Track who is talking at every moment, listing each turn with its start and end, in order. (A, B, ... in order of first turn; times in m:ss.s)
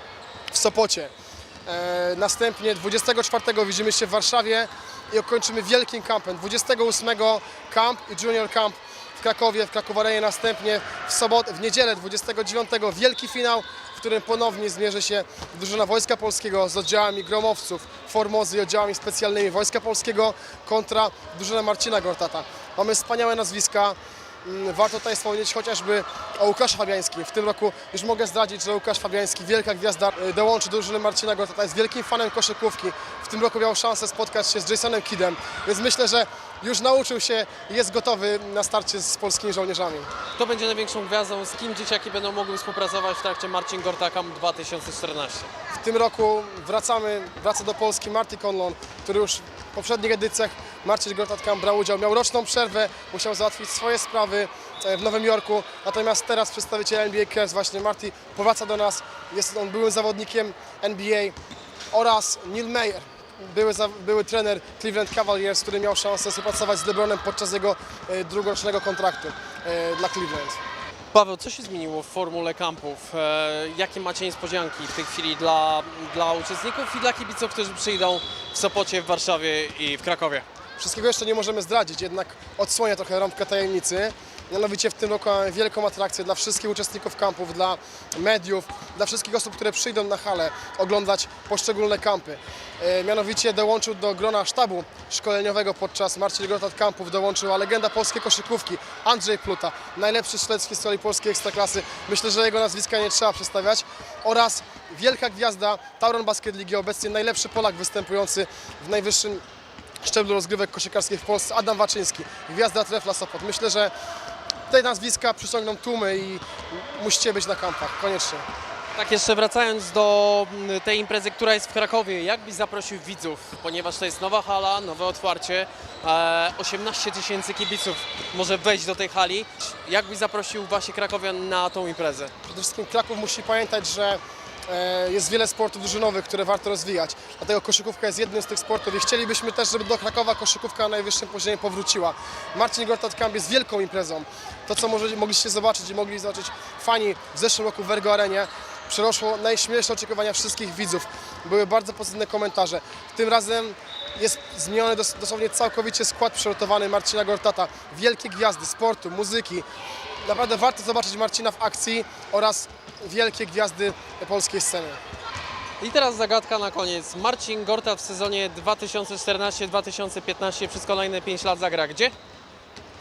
0:00.5-0:01.1 A
0:01.6-0:40.1 A
0:40.3-0:45.5 B
0:45.7-1:01.3 A
1:01.9-1:10.6 A
1:11.1-1:20.4 B
1:20.8-1:49.4 A
1:50.0-1:53.9 A
1:54.7-1:58.4 A
1:59.0-2:12.3 B
2:12.5-2:39.6 A
2:40.2-2:45.0 A
2:45.8-2:52.1 B